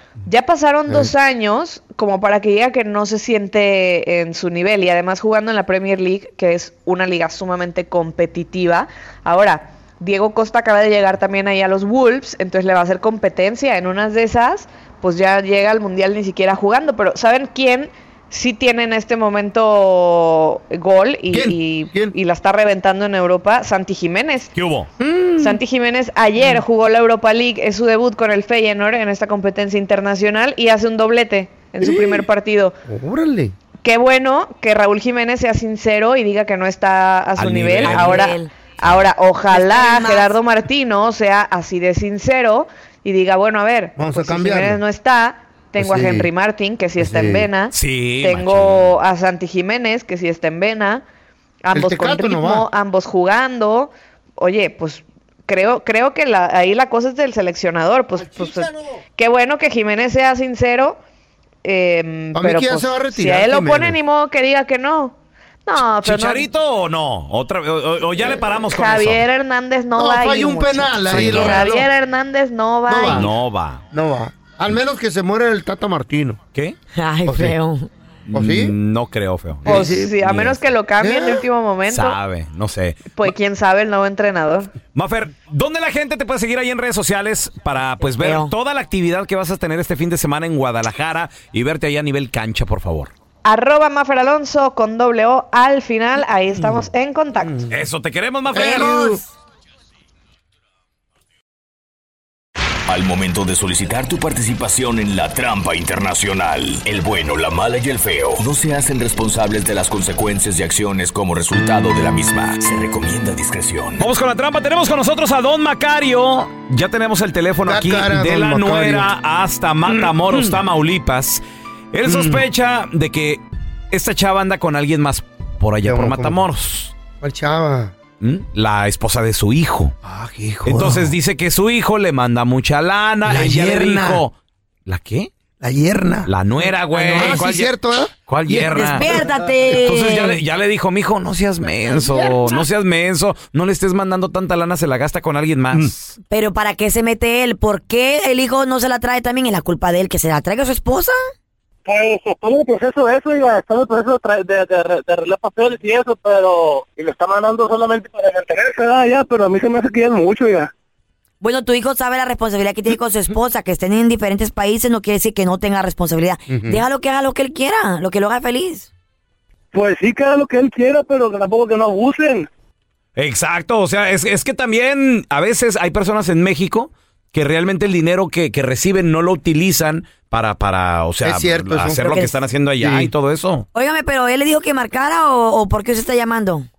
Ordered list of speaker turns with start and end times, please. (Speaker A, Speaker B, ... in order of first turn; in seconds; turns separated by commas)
Speaker A: 0.3-24.5, Speaker B: 21.3-22.1, Speaker C: 24.6-24.9, Speaker B: 25.0-25.6, Speaker A: 25.4-32.8, Speaker B: 31.8-32.2, Speaker B: 32.9-33.5, Speaker A: 33.8-51.0, Speaker C: 37.4-38.3, Speaker D: 37.8-38.5, Speaker C: 38.8-39.1, Speaker D: 39.5-40.4, Speaker B: 44.0-44.8, Speaker B: 45.8-46.3, Speaker B: 47.0-47.5, Speaker C: 47.7-49.0, Speaker A: 51.6-61.0, Speaker B: 51.8-52.6, Speaker B: 58.2-58.8, Speaker A: 61.6-65.2, Speaker B: 62.3-64.0, Speaker A: 65.7-66.5, Speaker C: 65.8-69.2, Speaker A: 68.7-73.3, Speaker B: 70.0-71.9, Speaker C: 71.2-71.5, Speaker D: 71.2-71.7, Speaker B: 72.9-73.3, Speaker C: 73.1-73.8, Speaker B: 73.9-76.4, Speaker D: 76.9-77.9, Speaker B: 77.3-77.6, Speaker C: 78.3-80.6, Speaker B: 78.3-78.7, Speaker B: 79.7-80.1, Speaker A: 79.7-82.2, Speaker B: 81.0-81.4, Speaker C: 81.9-83.2, Speaker A: 83.2-84.7, Speaker C: 84.9-93.1, Speaker D: 88.0-88.5, Speaker A: 93.5-97.7, Speaker C: 97.7-99.2, Speaker D: 98.5-99.2, Speaker B: 98.5-99.2, Speaker E: 102.9-114.1, Speaker C: 114.0-121.4, Speaker B: 117.7-119.1, Speaker B: 119.9-120.5, Speaker C: 121.9-126.9, Speaker B: 122.1-122.4, Speaker B: 125.8-126.4, Speaker B: 127.2-127.9, Speaker C: 128.2-130.0, Speaker B: 130.1-131.1, Speaker C: 130.6-134.3, Speaker B: 133.3-134.2, Speaker C: 134.9-135.3, Speaker B: 135.6-136.3, Speaker C: 136.3-137.7, Speaker D: 136.9-137.4, Speaker B: 137.1-139.2, Speaker C: 138.3-139.2, Speaker D: 138.7-140.4, Speaker C: 139.8-146.2, Speaker B: 142.1-142.6, Speaker D: 146.3-151.2, Speaker F: 151.9-160.7, Speaker D: 161.4-168.9, Speaker B: 166.5-166.8, Speaker F: 169.7-172.5, Speaker C: 173.2-183.7, Speaker B: 181.2-182.0, Speaker D: 182.0-182.3, Speaker B: 182.8-183.1, Speaker D: 183.7-186.7